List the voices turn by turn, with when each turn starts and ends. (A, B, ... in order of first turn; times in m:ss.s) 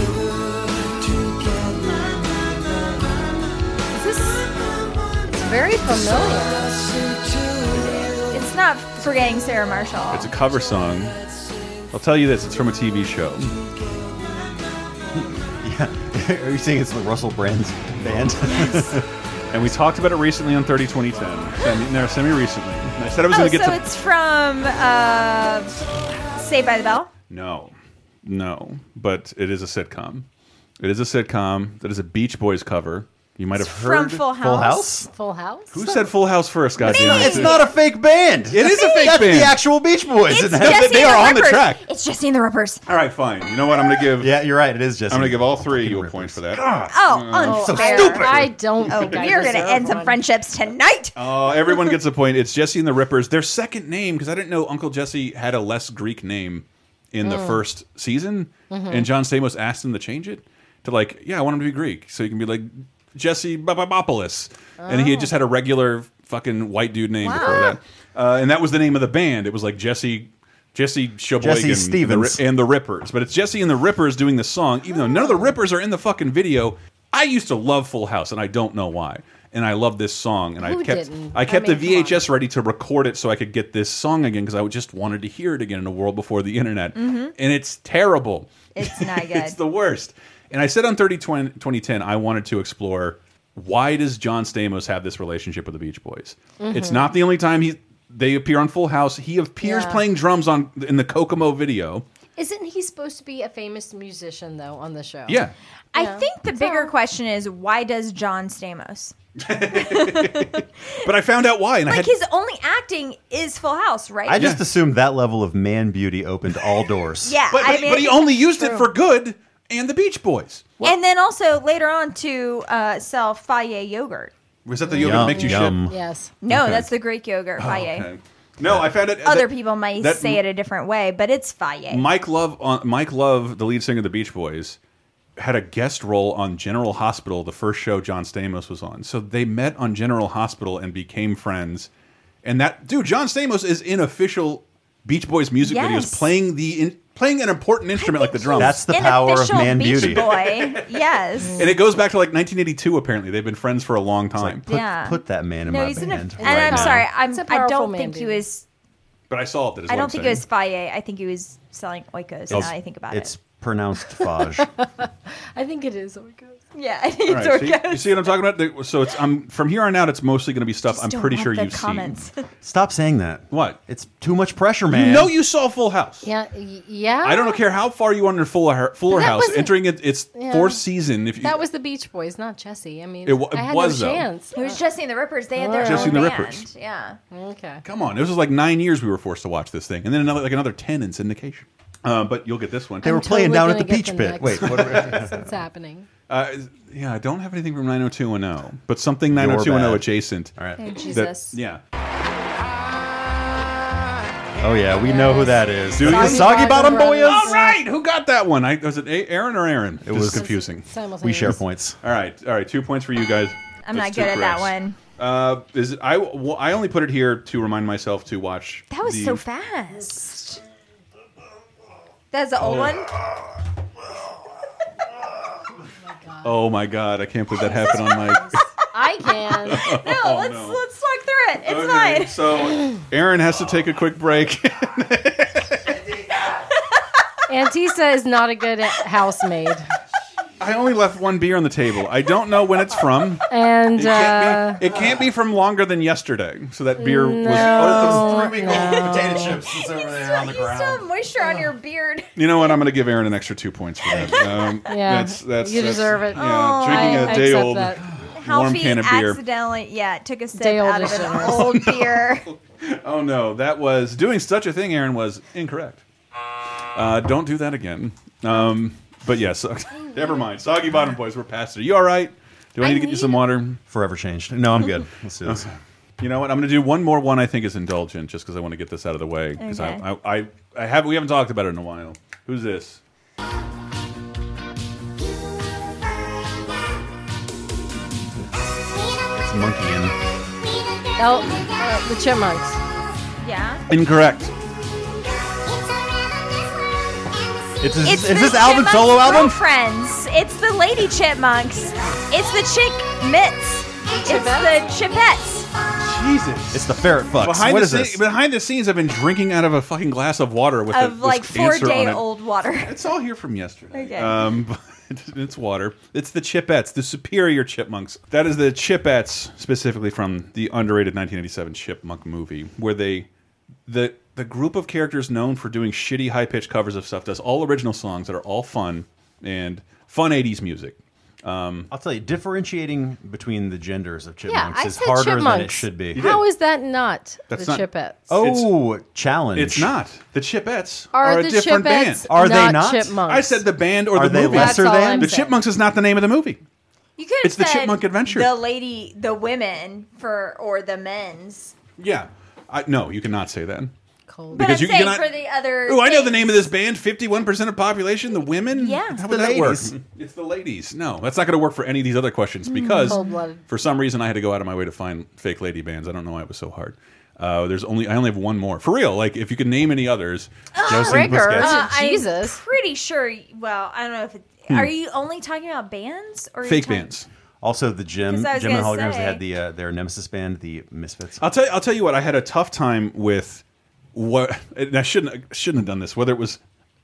0:03.9-0:04.5 A
0:05.3-0:06.8 B
0:07.7-0:08.1 C
0:08.3-0:10.3 A
0:10.1-0:11.2 C
0:11.9-0:13.6 C
0:15.2-0:19.0 D
0:18.5-0:19.0 A
0:19.5-0:23.8 C
0:23.3-0:25.8 A
0:26.4-0:27.1 A
0:27.3-0:30.3 C
0:30.8-0:34.2 C
0:33.6-0:35.0 A
0:34.2-0:35.1 D
0:35.1-0:35.8 B
0:35.7-0:37.7 C
0:36.8-0:37.7 A
0:36.8-0:41.1 D
0:38.5-0:39.6 C
0:38.6-0:39.4 A
0:40.2-0:42.8 A
0:40.5-0:41.8 C
0:42.9-0:44.3 C
0:44.2-0:48.3 D
0:45.1-0:49.2 C
0:46.9-0:52.0 A
0:47.4-0:50.2 B
0:51.2-1:42.0 C
0:57.2-0:57.6 B
0:58.7-0:59.1 B
1:04.8-1:05.3 B
1:07.2-1:07.8 B
1:11.4-1:12.4 D
1:20.6-1:22.3 B
1:27.0-1:27.3 A
1:28.8-1:29.6 A
1:36.6-1:37.1 B
1:39.6-1:40.0 B
1:42.4-1:45.4 B
1:45.3-1:45.5 C
1:45.9-1:49.2 A
1:46.0-1:46.9 B
1:49.4-1:52.1 C
1:49.7-1:50.7 A
1:51.9-1:54.6 A
1:54.3-1:57.4 D
1:54.4-1:54.6 C
1:57.2-1:58.9 A
1:57.5-2:01.0 C
2:00.8-2:04.3 A
2:04.7-2:05.8 C
2:05.0-2:06.3 B
2:05.0-2:06.0 D
2:06.4-2:08.1 A
2:06.5-2:06.8 C
2:06.5-2:06.8 D
2:07.6-2:10.4 C
2:09.2-2:12.1 A
2:11.9-2:14.8 C
2:15.4-2:21.9 C
2:22.4-2:31.0 C
2:25.6-2:26.3 A
2:28.0-2:31.7 A
2:28.6-2:30.3 D
2:31.4-2:31.7 B
2:31.5-2:34.7 C
2:34.4-2:37.1 D
2:34.7-2:38.6 A
2:36.4-2:37.1 C
2:36.5-2:38.4 B
2:39.3-2:40.4 C
2:39.9-2:43.4 A
2:42.5-2:44.7 D
2:44.2-2:46.6 B
2:46.7-2:48.4 A
2:47.3-2:52.2 C
2:50.9-2:52.4 A
2:52.6-2:55.3 D
2:53.5-2:53.8 C
2:54.9-2:56.3 C
2:56.2-2:57.6 B
2:57.2-3:01.6 C
2:59.1-2:59.8 B
3:00.3-3:00.8 B
3:01.4-3:04.8 B
3:03.2-3:04.3 C
3:04.5-3:07.2 A
3:05.6-3:06.3 B
3:05.8-3:06.7 C
3:07.3-3:07.8 B
3:07.8-3:13.1 C
3:13.0-3:15.4 D
3:13.0-3:16.1 B
3:14.5-3:15.1 C
3:16.3-3:21.8 C
3:19.3-3:20.8 D
3:20.8-3:21.6 A
3:24.6-3:27.5 D
3:25.0-3:27.8 B
3:25.9-3:30.9 C
3:30.0-3:30.5 D
3:30.3-3:31.6 B
3:31.2-3:32.0 D
3:32.0-3:39.4 C
3:33.9-3:35.0 A
3:38.9-3:40.6 A
3:42.3-3:43.1 A
3:42.6-3:43.0 C
3:46.1-3:46.6 B
3:46.4-3:48.6 C
3:47.6-3:48.4 A
3:48.9-3:49.9 B
3:49.6-3:50.8 C
3:49.9-3:52.4 A
3:51.6-3:56.0 C
3:57.5-3:59.8 B
4:00.6-4:08.3 C
4:03.5-4:04.8 B
4:07.0-4:09.6 B
4:07.5-4:11.1 D
4:08.5-4:12.8 A
4:12.4-4:19.4 C
4:14.1-4:14.7 A
4:14.9-4:18.0 B
4:16.4-4:17.6 A
4:18.4-4:22.5 A
4:20.5-4:21.8 B
4:21.3-4:26.0 C
4:27.0-4:33.8 C
4:32.8-4:33.4 B
4:33.9-4:35.7 D
4:35.4-4:43.0 C
4:39.6-4:40.0 A
4:49.3-4:50.2 D
4:51.2-4:52.8 B
4:53.4-4:53.8 A
4:53.9-4:54.5 C
4:57.8-4:59.6 D
4:58.0-5:05.7 A
5:04.1-5:04.9 B
5:06.0-5:12.2 C
5:06.7-5:08.2 D
5:10.9-5:13.0 A
5:12.8-5:23.3 C
5:13.9-5:14.4 A
5:23.9-5:31.9 C
5:31.9-5:36.2 D
5:34.5-5:38.2 B
5:36.2-5:36.5 C
5:37.5-5:38.7 C
5:38.3-5:39.9 D
5:39.5-5:42.3 C
5:41.1-5:43.6 B
5:42.3-5:43.2 D
5:43.3-5:46.6 C
5:44.1-5:45.3 D
5:44.5-5:45.6 B
5:47.2-5:51.8 A
5:47.4-5:48.5 C
5:52.0-5:53.9 C
5:54.3-5:54.8 B
5:54.5-5:55.3 C
5:54.5-5:56.7 A
5:55.9-6:11.8 C
5:58.7-5:59.2 A
5:59.2-6:00.0 D
6:02.7-6:03.3 A
6:03.1-6:03.6 B
6:10.8-6:17.1 A
6:10.9-6:12.6 B
6:16.6-6:17.3 C
6:17.6-6:21.4 D
6:18.3-6:19.4 A
6:21.4-6:23.6 C
6:24.2-6:26.6 C